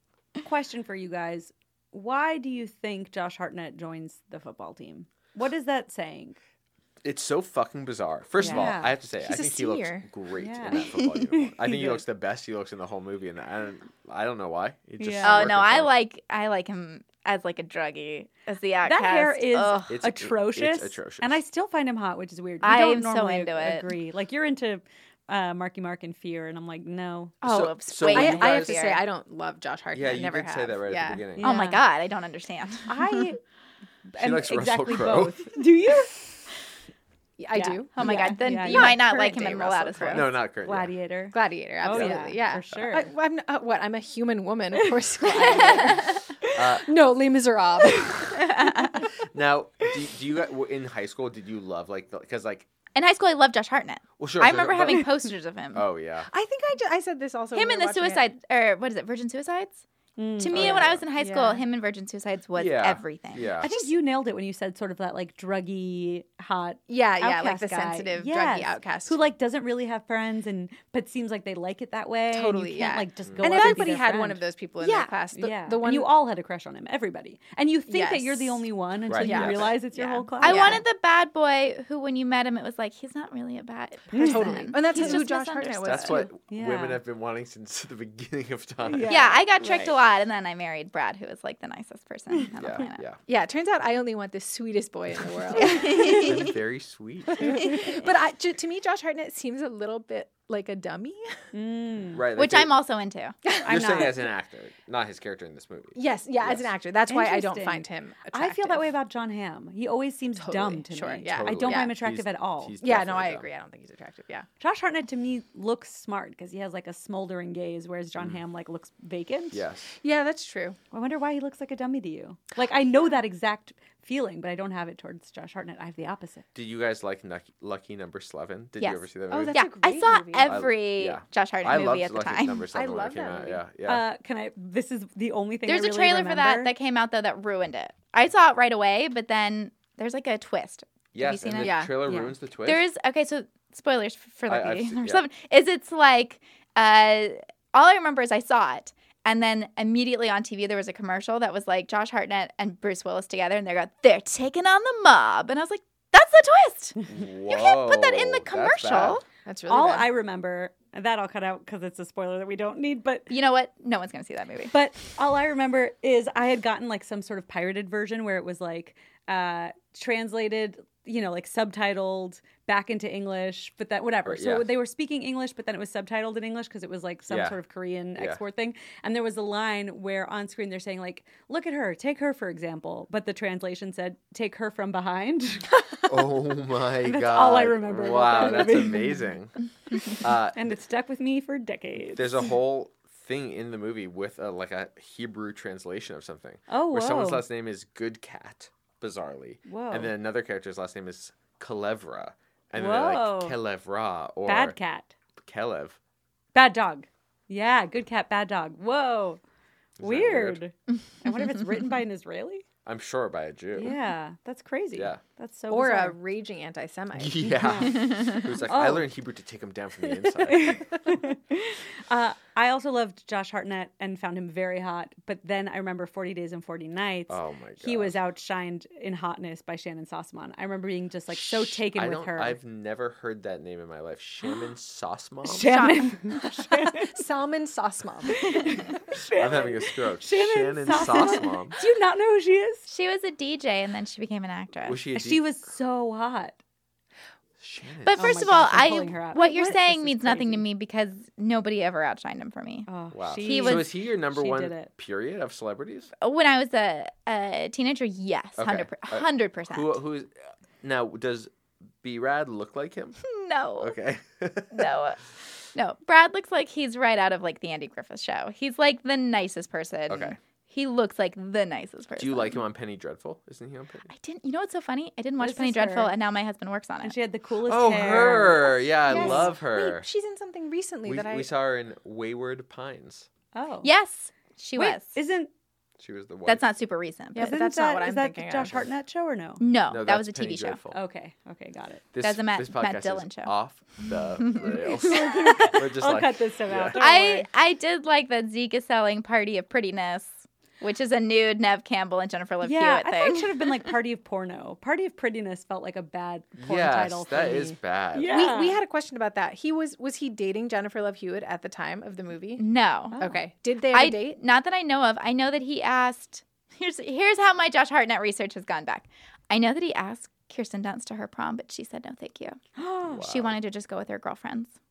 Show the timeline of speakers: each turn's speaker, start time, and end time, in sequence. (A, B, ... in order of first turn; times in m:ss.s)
0:00.4-0:06.4 A
0:07.0-0:15.9 B
0:08.4-0:08.9 A
0:08.4-0:10.1 C
0:10.4-0:12.0 A
0:15.0-0:15.5 A
0:15.2-0:20.0 D
0:18.8-0:27.4 A
0:19.9-0:21.4 B
0:22.6-0:23.9 D
0:27.4-0:29.0 D
0:27.4-0:28.8 B
0:28.0-0:31.2 C
0:29.9-0:31.6 B
0:31.4-0:31.8 A
0:31.4-0:33.2 D
0:32.9-0:33.4 A
0:34.1-0:36.5 A
0:34.2-0:35.5 B
0:37.4-0:40.2 C
0:37.5-0:39.5 A
0:38.0-0:40.3 D
0:40.0-0:40.9 B
0:40.6-0:43.1 A
0:41.3-0:46.2 C
0:41.9-0:42.2 B
0:45.3-0:46.2 D
0:45.3-0:45.6 A
0:46.5-0:46.9 B
0:46.7-0:48.5 C
0:48.3-0:49.0 D
0:49.1-0:52.7 B
0:52.9-0:55.8 D
0:54.2-0:55.1 B
0:55.7-0:56.3 B
0:56.3-0:58.3 C
0:57.5-0:59.8 D
1:00.2-1:01.6 A
1:00.4-1:03.5 D
1:00.5-1:01.0 B
1:02.5-1:03.7 B
1:03.6-1:20.8 A
1:03.6-1:03.9 C
1:06.9-1:09.2 C
1:12.3-1:16.1 C
1:13.2-1:13.6 B
1:17.9-1:18.6 C
1:19.1-1:19.8 B
1:19.2-1:20.8 C
1:20.4-1:26.2 D
1:24.1-1:26.3 C
1:24.1-1:25.2 A
1:25.8-1:29.2 B
1:26.5-1:27.0 A
1:28.8-1:29.9 A
1:29.1-1:33.0 D
1:32.6-1:33.2 B
1:33.2-1:36.4 C
1:35.6-1:36.5 D
1:36.1-1:37.6 B
1:37.3-1:41.3 C
1:41.5-1:42.2 A
1:42.1-1:42.7 B
1:42.3-1:43.4 D
1:43.5-1:44.0 C
1:43.5-1:44.2 A
1:43.6-1:46.7 B
1:45.9-1:48.8 C
1:47.1-1:52.7 A
1:50.4-1:51.9 C
1:51.3-1:53.5 B
1:52.8-1:54.5 C
1:54.6-1:59.6 A
1:59.5-1:59.9 B
2:00.0-2:00.8 C
2:00.9-2:06.4 A
2:06.5-2:09.6 B
2:08.8-2:12.7 D
2:09.3-2:10.5 C
2:10.4-2:14.0 B
2:12.7-2:13.6 C
2:13.8-2:16.7 A
2:15.6-2:21.8 D
2:21.1-2:22.8 B
2:21.6-2:21.9 C
2:22.0-2:22.3 A
2:22.6-2:39.2 D
2:24.5-2:25.2 B
2:37.0-2:39.2 B
2:39.4-2:40.1 C
2:39.7-2:43.3 A
2:43.3-2:44.7 D
2:44.7-3:06.1 A
2:54.2-2:54.7 B
2:57.3-2:57.6 B
2:58.2-2:58.4 B
3:06.1-3:09.6 B
3:07.0-3:09.2 A
3:10.1-3:10.7 B
3:10.5-3:12.5 A
3:12.0-3:24.8 B
3:16.7-3:17.4 A
3:19.6-3:20.1 A
3:22.7-3:23.6 A
3:24.4-3:25.1 A
3:25.4-3:26.0 B
3:26.5-3:29.4 A
3:30.0-3:30.6 B
3:30.0-3:32.6 A
3:32.8-3:33.9 B
3:33.8-3:36.2 A
3:34.9-3:35.2 B
3:35.7-3:37.7 C
3:37.2-3:40.8 B
3:37.6-3:39.1 A
3:40.5-3:52.6 A
3:47.3-3:48.2 B
3:51.3-3:55.7 B
3:55.4-3:57.1 A
3:55.6-3:56.2 D
3:56.4-3:58.6 C
3:58.3-4:02.9 A
3:59.3-4:01.8 B
4:02.9-4:05.0 D
4:04.8-4:05.4 B
4:05.1-4:06.6 A
4:07.6-4:08.7 B
4:08.0-4:13.9 D
4:08.2-4:10.6 A
4:12.9-4:14.9 A
4:13.1-4:16.1 B
4:16.2-4:20.0 D
4:18.6-4:21.5 B
4:22.0-4:23.2 B
4:23.2-4:23.9 D
4:23.8-4:24.9 B
4:24.7-4:25.2 D
4:25.7-4:32.6 D
4:30.1-4:30.4 B
4:32.2-4:34.1 B
4:34.1-4:37.1 D
4:35.4-4:36.1 A
4:37.0-4:39.5 A
4:37.6-4:40.1 B
4:39.1-4:41.5 C
4:41.0-4:43.3 B
4:43.5-4:43.9 A
4:43.8-4:45.2 D
4:44.8-4:45.5 A
4:46.0-4:46.6 B
4:46.4-4:47.5 D
4:47.3-4:48.8 C
4:47.4-4:49.6 A
4:49.6-4:50.8 D
4:49.9-4:51.0 B
4:50.9-4:52.0 A
4:52.1-4:57.0 B
4:52.2-4:53.5 D
4:54.4-4:55.5 D
4:55.0-4:57.5 A
4:56.9-5:03.7 D
5:02.6-5:08.8 A
5:06.6-5:08.3 B
5:08.3-5:12.6 C
5:12.6-5:13.2 D
5:13.1-5:13.4 A
5:13.2-5:14.4 C
5:13.9-5:22.6 D
5:22.8-5:23.3 A
5:23.0-5:23.5 B
5:23.2-5:24.7 D